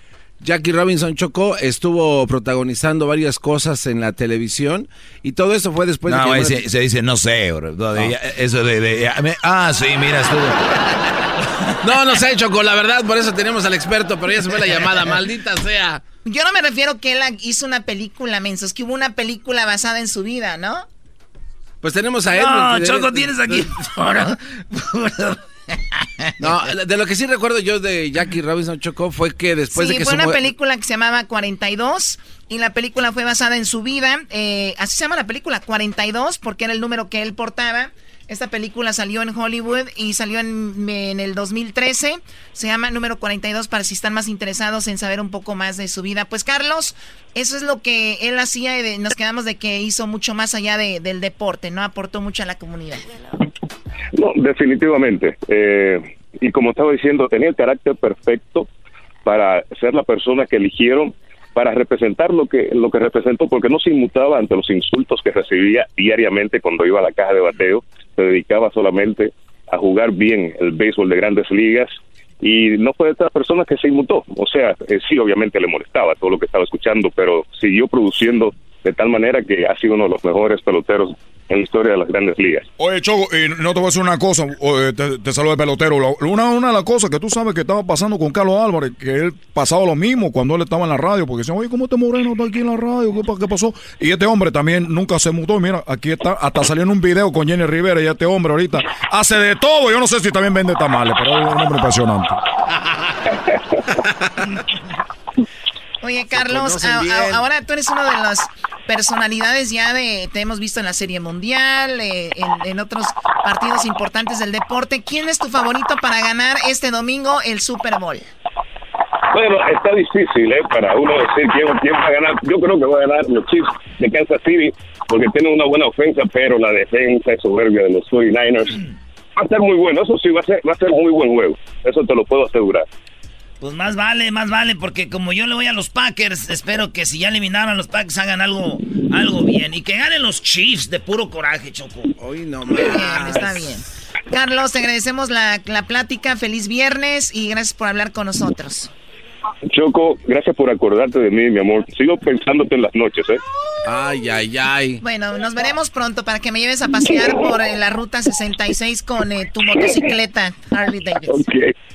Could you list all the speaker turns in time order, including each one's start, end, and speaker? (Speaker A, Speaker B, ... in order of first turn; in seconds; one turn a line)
Speaker A: 0.4-6.7
Speaker B: 6.1-10.6
Speaker A: 11.8-16.0
Speaker C: 16.2-20.9
Speaker A: 21.8-23.6
Speaker D: 22.3-26.6
Speaker A: 26.4-30.4
Speaker C: 29.7-53.1
Speaker E: 54.1-58.7
Speaker E: 59.2-82.7
Speaker F: 82.8-102.3
Speaker C: 106.0-118.2
Speaker A: 106.3-107.4
Speaker E: 119.3-128.8
Speaker E: 129.4-132.9
Speaker D: 133.6-142.1
Speaker A: 142.2-143.6
Speaker C: 142.8-148.9
Speaker E: 149.7-153.4
Speaker A: 153.8-155.0
Speaker C: 155.0-161.5
Speaker E: 161.3-161.7